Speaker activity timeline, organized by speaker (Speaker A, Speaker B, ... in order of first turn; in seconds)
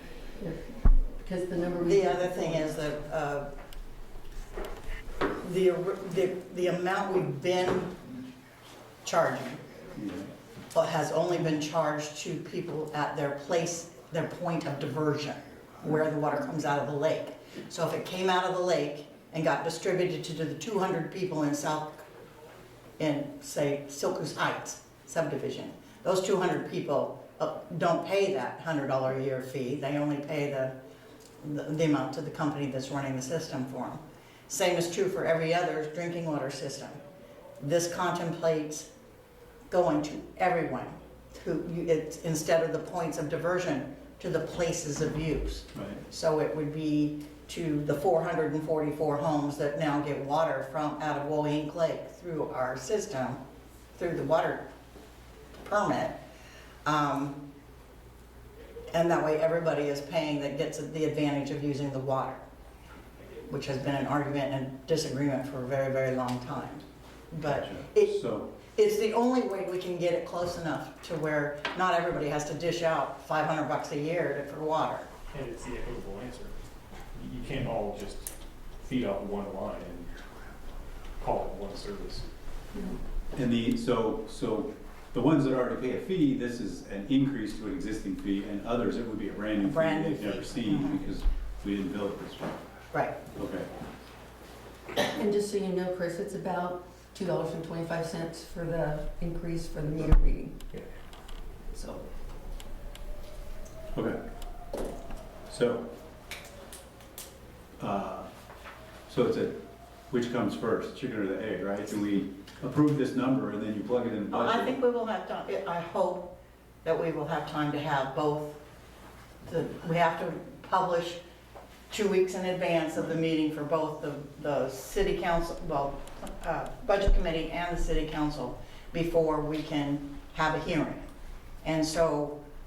Speaker A: 0.3-2.8, 95.0-100.6, 101.8-102.0
Speaker B: 1.8-3.5, 5.4-8.0, 9.0-9.6, 10.7-22.0, 23.0-30.8, 31.4-37.0, 37.6-38.9, 39.7-53.4, 54.0-54.7, 55.6-56.1, 56.9-57.4, 58.9-62.4, 63.5-75.1, 89.6-91.0, 92.9-93.2, 114.3-116.3, 116.8-118.6, 119.5-121.2, 121.9-131.0, 131.6-132.4
Speaker C: 9.9-10.3, 45.7-46.0, 67.4-68.5, 83.3-92.6, 93.3-93.7, 105.5-105.9, 107.8-108.3, 109.1-109.6, 110.1-114.8
Speaker D: 75.3-76.6, 77.1-80.1, 81.2-82.3